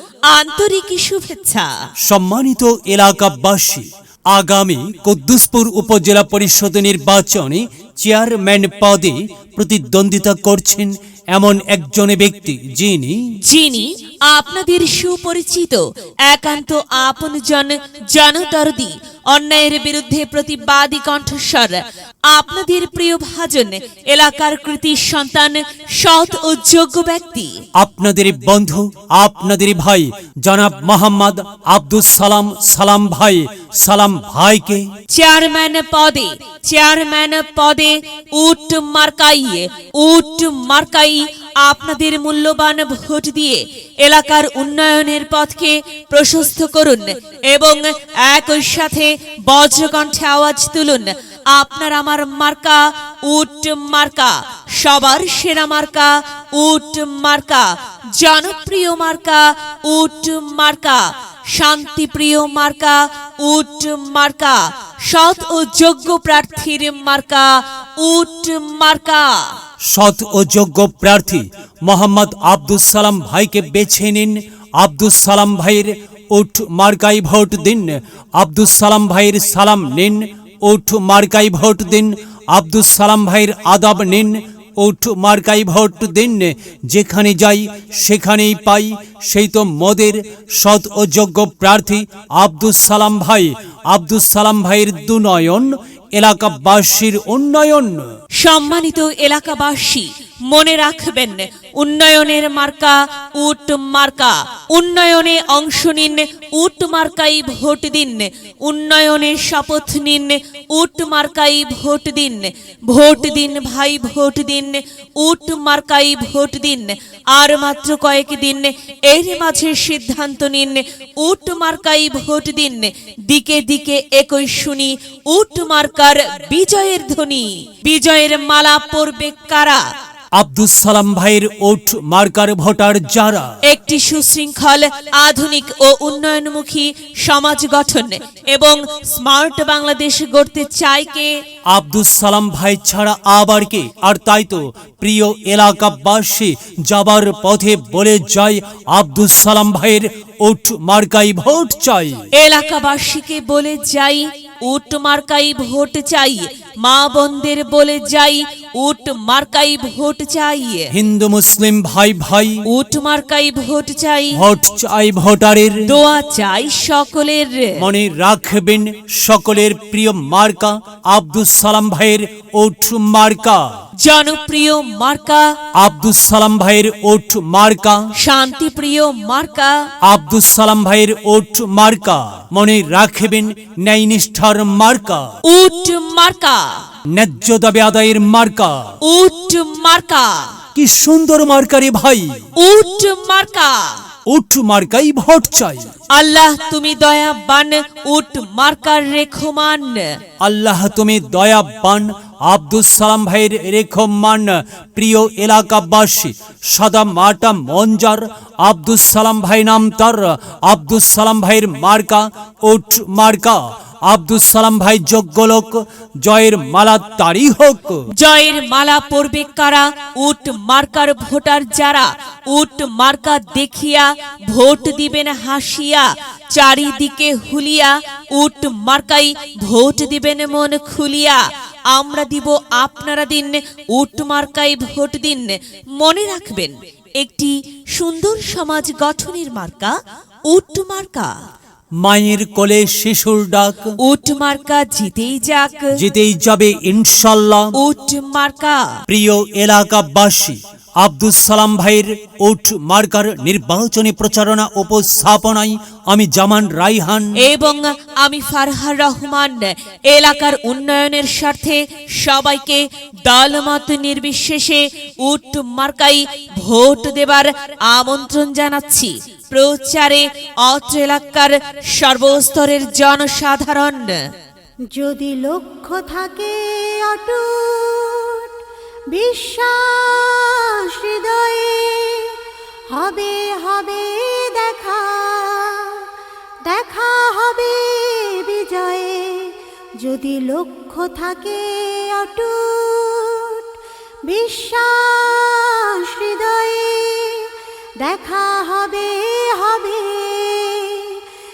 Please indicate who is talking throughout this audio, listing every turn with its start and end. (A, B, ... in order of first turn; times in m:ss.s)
0:00.3-0:01.7 A
0:02.0-0:13.2 B
0:13.4-0:27.6 A
0:27.8-0:34.8 B
0:35.1-1:09.5 A
1:09.9-1:38.1 B
1:38.4-2:09.8 A
2:10.3-2:13.5 B
2:13.6-2:21.4 A
2:21.7-2:32.2 B
2:32.3-2:40.9 A
2:40.9-2:42.6 B
2:42.7-2:44.4 A
2:44.3-2:45.9 B
2:45.8-2:47.8 A
2:47.8-2:53.6 B
2:54.0-2:55.5 A
2:55.8-2:58.0 B
2:58.2-2:59.9 A
3:00.0-3:05.3 B
3:05.4-3:06.8 A
3:07.1-3:08.9 B
3:09.0-3:10.5 A
3:10.7-3:12.3 B
3:12.6-3:14.0 A
3:14.3-3:15.9 B
3:16.1-3:20.1 A
3:20.4-3:38.0 B
3:38.1-4:00.0 A
4:00.5-4:01.3 A
4:02.0-4:03.9 B
4:04.0-4:05.9 A
4:05.9-4:07.7 B
4:07.8-4:08.9 A
4:09.1-4:17.4 B
4:17.4-4:34.2 A
4:34.9-4:38.5 C
4:39.1-4:42.3 C
4:42.9-4:46.0 C
4:46.6-4:53.6 C
4:54.2-4:57.5 C
4:58.0-5:01.2 C